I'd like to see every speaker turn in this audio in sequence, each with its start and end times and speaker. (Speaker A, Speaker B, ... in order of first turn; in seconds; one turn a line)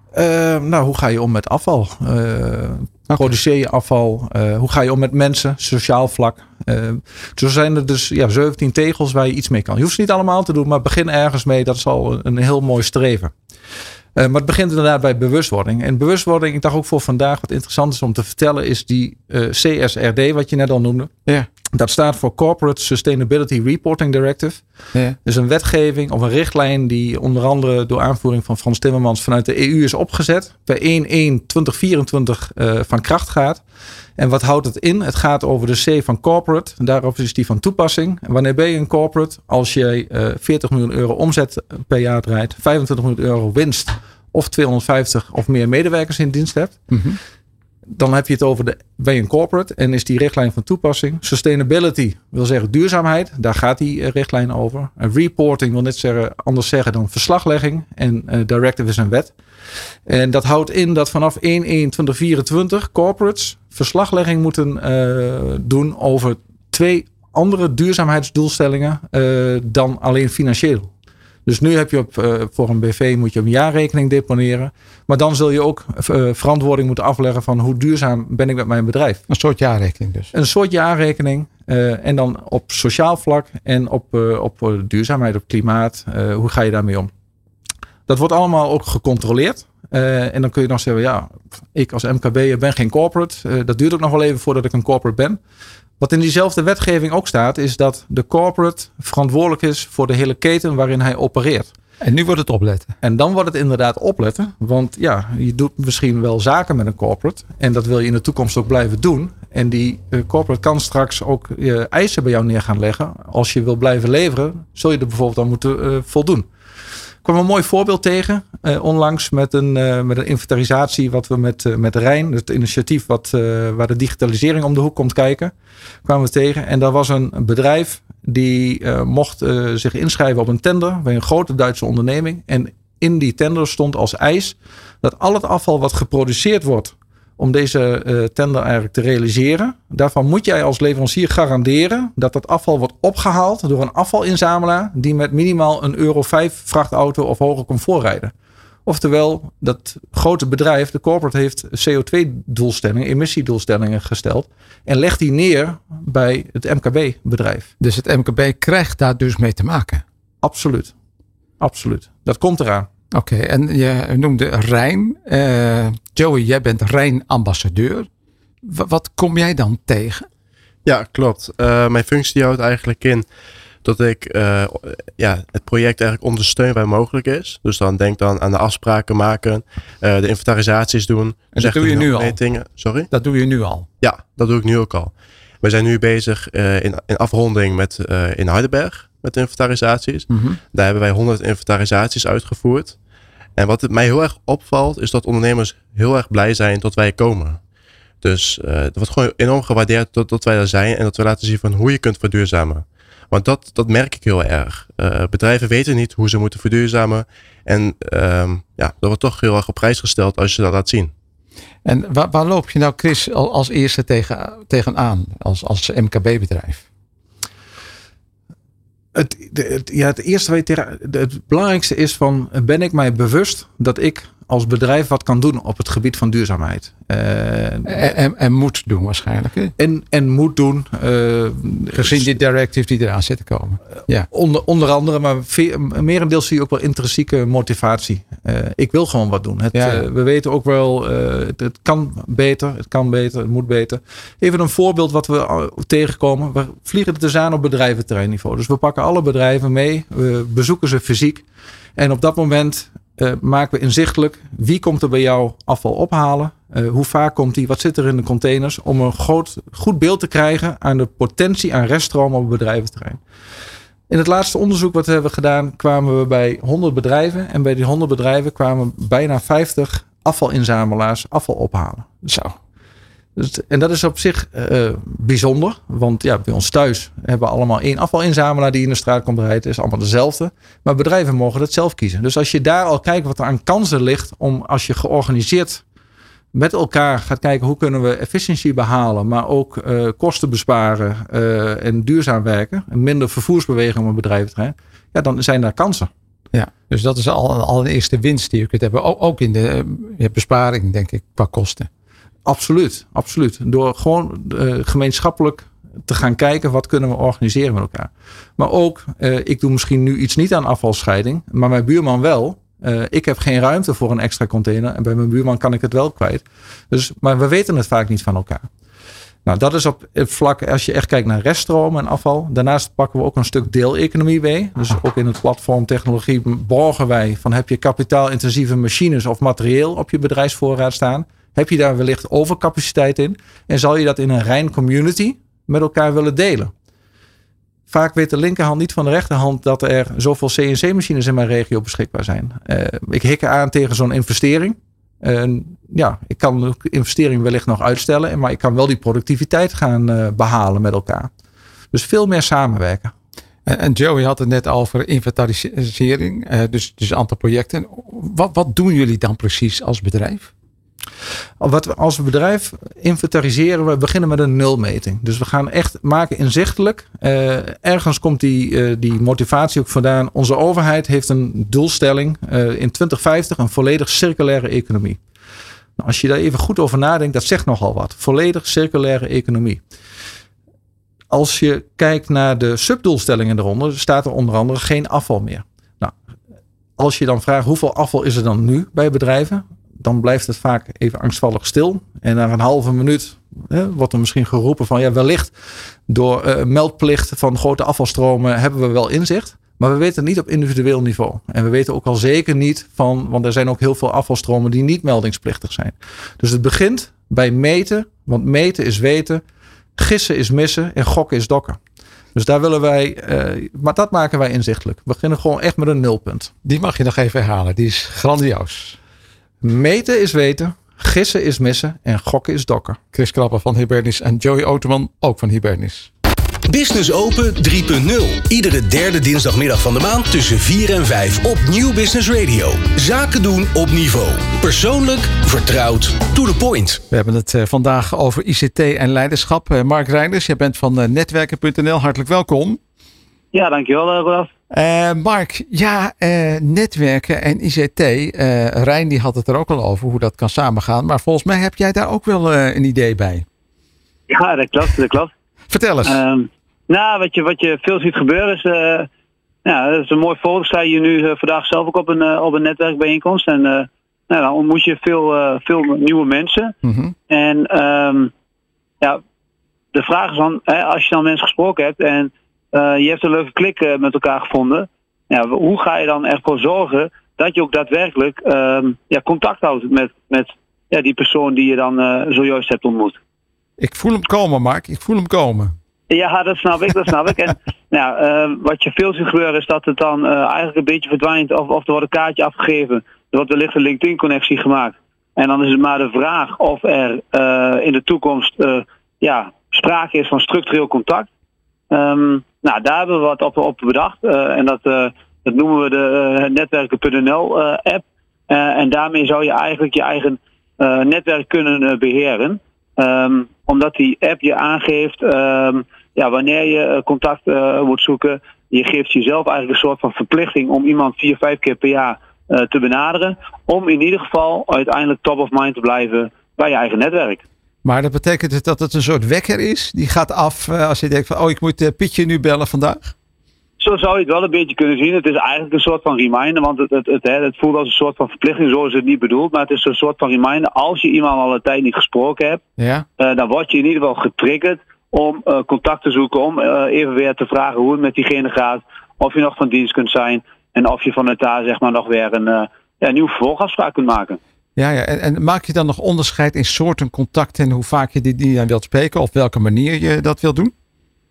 Speaker A: 0.1-13.3
Speaker A: 14.2-21.1
Speaker A: 21.7-24.6
Speaker A: 25.2-33.6
Speaker A: 34.2-46.9
Speaker B: 46.9-47.2
Speaker A: 47.9-59.3
Speaker A: 60.1-70.9
Speaker A: 71.5-79.2
Speaker B: 79.3-80.3
Speaker A: 80.3-87.1
Speaker A: 88.1-95.4
Speaker A: 96.0-101.7
Speaker B: 102.0-102.9
Speaker A: 103.0-116.5
Speaker A: 117.2-125.5
Speaker A: 126.0-148.3
Speaker A: 148.8-157.7
Speaker B: 157.8-160.0
Speaker A: 160.4-160.9
Speaker A: 161.6-162.9
Speaker B: 163.1-168.1
Speaker B: 168.6-170.3
Speaker C: 170.8-173.3
Speaker C: 173.8-183.1
Speaker B: 181.5-183.9
Speaker C: 184.0-193.0
Speaker B: 190.3-190.6
Speaker C: 193.5-197.6
Speaker C: 198.2-211.1
Speaker B: 211.8-216.8
Speaker A: 219.1-228.1
Speaker B: 227.8-229.7
Speaker A: 229.8-232.3
Speaker B: 231.9-234.3
Speaker A: 234.3-251.4
Speaker B: 239.7-240.0
Speaker A: 251.9-263.2
Speaker A: 264.1-272.2
Speaker B: 272.3-272.5
Speaker A: 273.4-285.8
Speaker A: 286.5-296.1
Speaker B: 296.5-301.9
Speaker A: 302.4-318.7
Speaker A: 319.4-336.7
Speaker A: 337.9-351.3
Speaker A: 351.9-353.1
Speaker B: 353.6-360.5
Speaker A: 361.6-375.2
Speaker A: 376.0-379.8
Speaker A: 381.3-386.1
Speaker A: 387.0-395.5
Speaker A: 396.1-409.4
Speaker A: 409.9-411.8
Speaker A: 412.3-416.5
Speaker B: 416.6-418.9
Speaker A: 419.6-423.0
Speaker B: 423.1-426.1
Speaker D: 426.7-437.0
Speaker B: 437.1-442.8
Speaker E: 443.5-444.5
Speaker B: 444.7-453.4
Speaker E: 454.3-455.3
Speaker B: 455.7-456.2
Speaker E: 456.0-459.1
Speaker E: 459.6-466.7
Speaker B: 466.8-467.1
Speaker E: 467.3-468.3
Speaker E: 469.9-483.2
Speaker B: 483.8-485.7
Speaker E: 486.1-501.3
Speaker E: 501.9-527.4
Speaker B: 527.8-533.1
Speaker E: 533.8-542.6
Speaker B: 542.8-543.0
Speaker E: 543.2-554.4
Speaker B: 554.8-560.7